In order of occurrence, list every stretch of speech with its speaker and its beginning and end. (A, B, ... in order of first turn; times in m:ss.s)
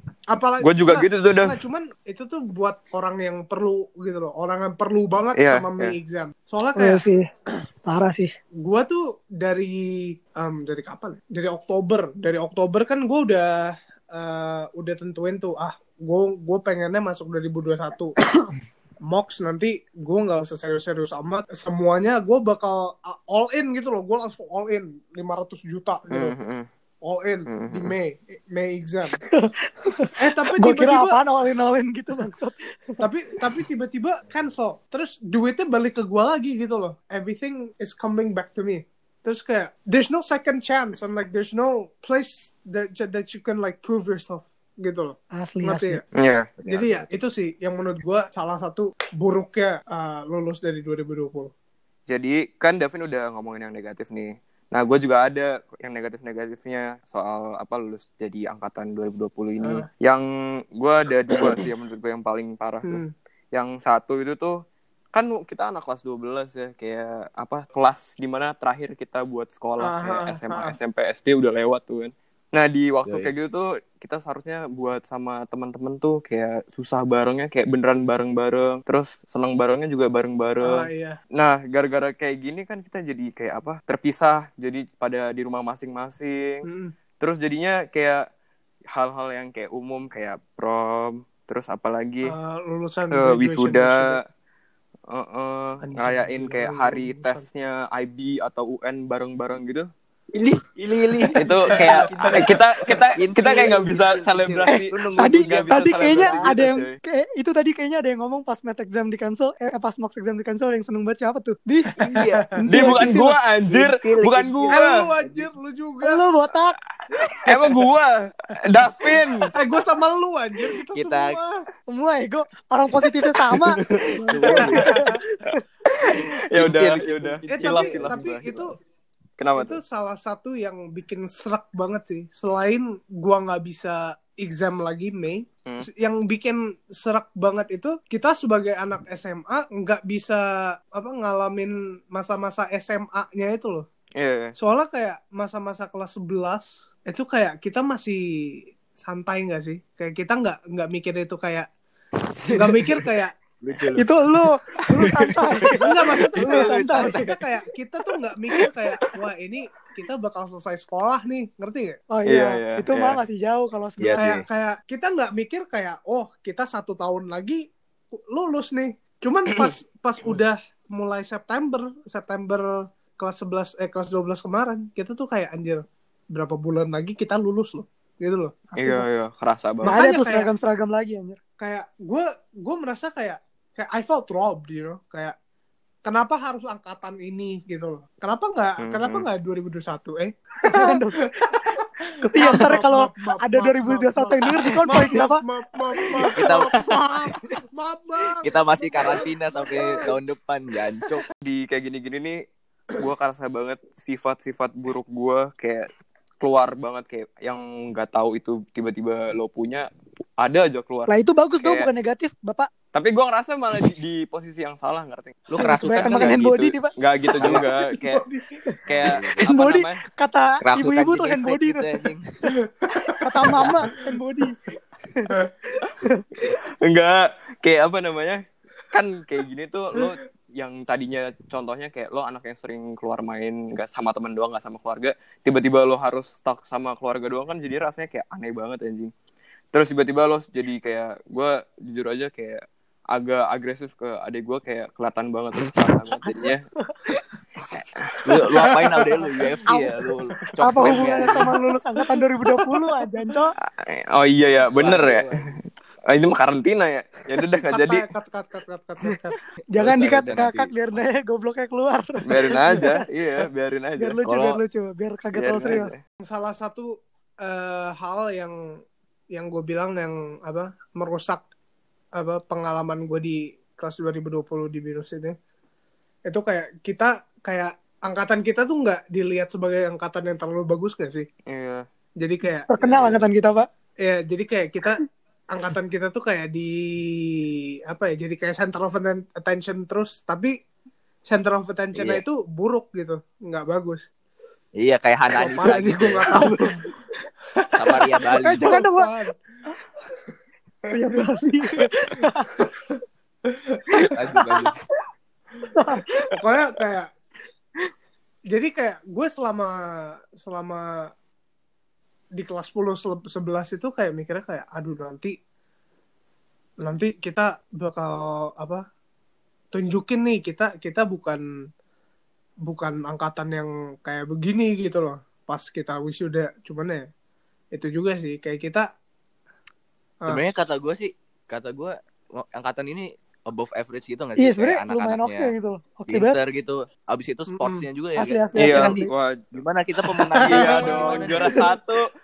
0:00.3-0:07.0 A
0:00.6-0:01.6 B
0:05.4-0:06.0 B
0:06.8-0:07.3 C
0:07.8-0:08.3 C
0:08.6-0:18.2 A
0:18.2-0:18.5 C
0:19.1-0:26.4 A
0:26.1-0:26.7 B
0:27.0-0:29.2 A
0:27.5-0:27.9 B
0:29.2-0:33.0 C
0:30.2-0:31.2 A
0:33.0-0:46.0 A
0:45.3-0:46.0 C
0:46.1-0:46.5 B
0:46.6-0:47.1 D
0:46.7-0:51.5 A
0:52.1-1:03.0 B
0:59.6-0:59.9 A
1:02.9-1:03.1 A
1:03.5-1:04.6 B
1:05.1-1:26.6 B
1:09.8-1:10.8 A
1:13.0-1:13.3 D
1:20.6-1:21.2 A
1:26.6-1:26.9 A
1:27.2-1:28.2 B
1:28.9-1:32.3 B
1:32.2-1:34.2 A
1:33.1-1:34.2 B
1:35.1-1:39.9 B
1:35.8-1:37.4 A
1:40.3-1:46.7 D
1:41.4-1:47.0 B
1:41.7-1:42.5 A
1:44.7-1:53.4 C
1:52.0-1:55.5 D
1:52.7-1:55.0 B
1:54.7-1:56.2 A
1:56.0-1:56.8 C
1:57.4-1:59.5 B
1:59.5-2:01.6 A
2:00.9-2:01.4 D
2:01.9-2:05.6 C
2:03.5-2:04.9 B
2:04.3-2:05.0 D
2:04.4-2:05.2 A
2:05.9-2:08.6 B
2:06.5-2:08.5 D
2:07.5-2:08.7 A
2:09.4-2:09.8 B
2:09.6-2:23.9 A
2:24.2-2:24.5 B
2:24.6-2:28.2 A
2:29.0-2:31.7 A
2:32.4-2:32.9 D
2:32.5-2:33.4 A
2:33.6-2:34.1 D
2:34.0-2:37.4 C
2:35.8-2:42.0 A
2:36.4-2:37.4 D
2:42.1-2:44.2 C
2:42.2-2:43.2 B
2:44.0-2:44.4 D
2:44.2-2:58.5 A
2:58.8-2:59.0 C
2:58.8-3:00.0 B
2:59.8-3:00.5 A
2:59.8-3:01.4 C
3:01.6-3:05.4 A
3:06.0-3:20.1 A
3:08.8-3:09.3 B
3:10.6-3:11.7 C
3:12.2-3:15.4 C
3:16.0-3:16.4 C
3:16.4-3:16.8 D
3:18.4-3:21.2 D
3:21.4-3:22.4 B
3:23.0-3:25.9 B
3:26.4-3:29.9 B
3:30.4-3:31.9 B
3:31.1-3:32.7 C
3:32.9-3:35.4 B
3:35.5-3:36.6 D
3:35.6-3:36.9 C
3:35.9-3:38.2 B
3:37.4-3:37.7 D
3:37.4-3:38.6 A
3:38.9-3:40.0 B
3:38.9-3:39.5 D
3:39.4-3:42.1 C
3:40.6-3:42.3 D
3:42.6-3:43.6 A
3:43.2-3:46.5 C
3:46.8-3:59.1 B
3:59.7-4:06.6 B
4:06.2-4:06.5 C
4:08.2-4:11.5 D
4:09.7-4:09.9 C
4:10.6-4:13.5 C
4:13.7-4:15.6 B
4:14.7-4:15.5 D
4:16.1-4:18.0 B
4:17.7-4:19.4 A
4:19.7-4:20.7 D
4:19.7-4:23.0 C
4:19.9-4:20.5 B
4:22.2-4:24.2 B
4:24.0-4:25.9 C
4:24.2-4:24.6 D
4:25.3-4:26.0 B
4:26.2-4:26.9 A
4:27.4-4:28.6 A
4:29.3-4:31.4 A
4:32.2-4:35.4 A
4:36.3-4:41.3 A
4:41.5-4:41.8 B
4:42.2-4:43.2 A
4:42.7-4:43.7 C
4:44.0-4:50.5 A
4:51.2-4:54.1 A
4:52.0-4:52.2 D
4:54.8-4:56.5 D
4:55.4-4:56.8 A
4:57.6-4:59.4 A
4:57.7-4:58.7 D
4:58.4-4:59.1 C
5:00.9-5:02.5 C
5:02.6-5:04.1 A
5:04.1-5:04.8 D
5:05.7-5:06.3 C
5:06.3-5:07.1 A
5:08.5-5:11.0 A
5:12.4-5:15.4 A
5:16.8-5:18.8 A
5:19.7-5:21.4 A
5:22.6-5:27.1 A
5:27.7-5:28.9 A
5:30.3-5:35.5 D
5:34.4-5:36.4 C
5:36.1-5:41.6 D
5:37.5-5:37.8 A
5:38.2-5:39.1 C
5:38.6-5:39.4 B
5:40.4-5:41.4 A
5:40.4-5:42.1 B